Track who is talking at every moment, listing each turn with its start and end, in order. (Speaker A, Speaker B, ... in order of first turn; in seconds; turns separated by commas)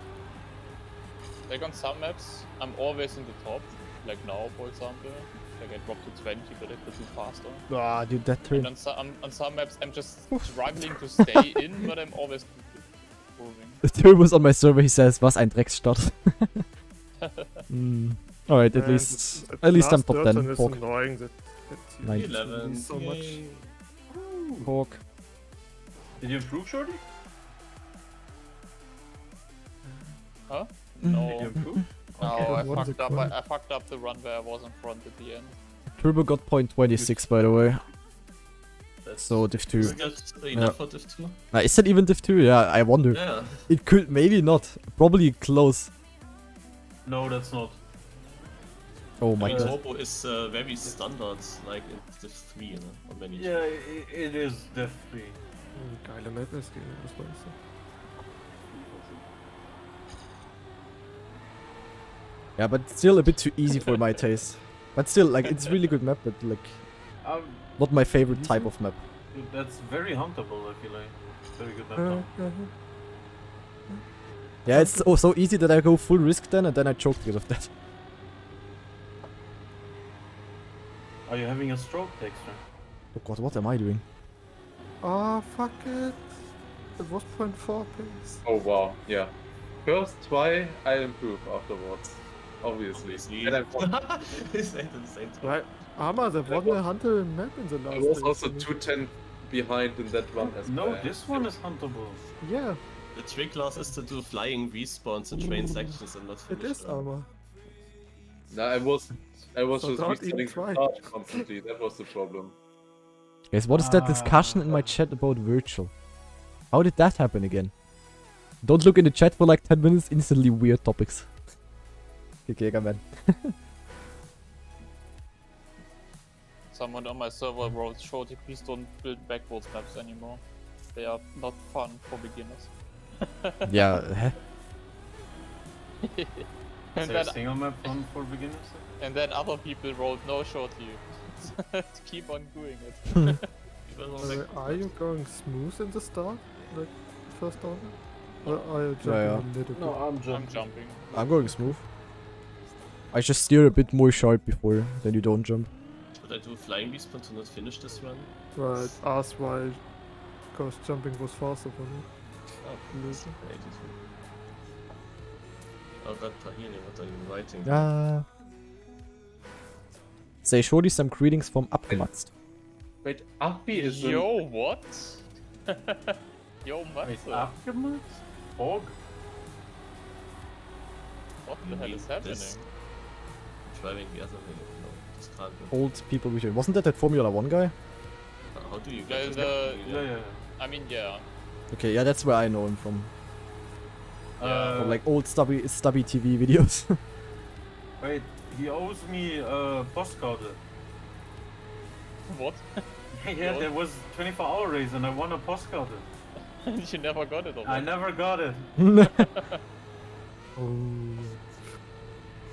Speaker A: 1.5-7.7, Speaker B: 7.7-8.7, Speaker A: 8.5-13.8, Speaker B: 13.8-16.6, Speaker A: 17.2-17.6, Speaker B: 17.7-20.8, Speaker C: 18.7-23.4, Speaker B: 22.0-22.3, Speaker D: 22.1-23.7, Speaker E: 24.1-24.7, Speaker B: 24.6-25.0, Speaker E: 26.2-27.0, Speaker A: 30.5-31.6, Speaker B: 31.0-31.7, Speaker E: 31.3-32.5, Speaker A: 32.2-35.5, Speaker C: 32.2-33.3, Speaker B: 36.0-37.8, Speaker E: 36.9-37.9, Speaker E: 39.0-40.4, Speaker B: 39.2-40.0, Speaker D: 39.8-41.4, Speaker B: 41.5-45.9, Speaker D: 43.1-43.7, Speaker E: 47.0-47.8, Speaker B: 49.2-49.8, Speaker D: 49.4-53.7, Speaker E: 49.5-49.7, Speaker E: 53.4-55.4, Speaker C: 55.8-57.5, Speaker E: 58.7-59.2, Speaker B: 62.6-66.8, Speaker E: 67.2-67.6, Speaker B: 67.8-69.0, Speaker C: 68.4-68.7, Speaker E: 69.3-72.3, Speaker C: 72.0-72.7, Speaker C: 74.7-75.1, Speaker B: 74.7-77.7, Speaker E: 81.3-82.6, Speaker B: 83.1-84.0, Speaker C: 85.0-86.4, Speaker C: 87.0-88.4, Speaker F: 88.4-89.3, Speaker F: 89.8-93.9, Speaker D: 92.9-95.9, Speaker C: 95.4-98.7, Speaker F: 96.5-96.8, Speaker F: 97.9-101.5, Speaker E: 100.4-102.2, Speaker C: 102.4-102.8, Speaker D: 103.1-107.1, Speaker C: 105.3-107.3, Speaker F: 108.5-112.5, Speaker C: 109.7-111.5, Speaker B: 113.5-115.9, Speaker E: 113.7-114.9, Speaker B: 116.7-117.7, Speaker B: 118.6-121.3, Speaker B: 122.5-123.5, Speaker A: 126.7-130.4, Speaker A: 130.9-132.7, Speaker A: 133.2-133.8, Speaker B: 133.7-134.4, Speaker A: 136.0-137.9, Speaker E: 137.0-138.8, Speaker A: 139.0-143.5, Speaker D: 143.9-144.9, Speaker C: 144.2-150.0, Speaker B: 149.0-149.5, Speaker E: 149.7-150.7, Speaker A: 150.3-151.8, Speaker B: 151.1-151.8, Speaker B: 153.1-155.7, Speaker D: 156.2-158.9, Speaker C: 158.5-159.8, Speaker C: 160.5-162.1, Speaker D: 162.6-164.0, Speaker C: 162.9-163.4, Speaker D: 166.0-167.9, Speaker B: 167.6-168.3, Speaker B: 170.4-172.3, Speaker F: 173.0-174.3, Speaker A: 173.7-177.5, Speaker E: 177.0-179.0, Speaker A: 181.4-182.7, Speaker D: 181.6-182.6, Speaker D: 183.7-185.9, Speaker B: 185.7-187.7, Speaker D: 188.5-190.1, Speaker A: 189.1-189.9, Speaker E: 189.8-190.4, Speaker A: 190.6-191.2, Speaker B: 191.7-193.1, Speaker E: 194.4-195.0, Speaker A: 194.4-195.0, Speaker B: 194.8-197.0, Speaker E: 198.0-200.6, Speaker A: 202.3-202.8, Speaker E: 203.1-206.1, Speaker A: 203.4-203.7, Speaker A: 206.6-208.1, Speaker E: 207.6-208.7, Speaker B: 208.8-209.3, Speaker A: 209.1-209.6, Speaker C: 210.6-211.4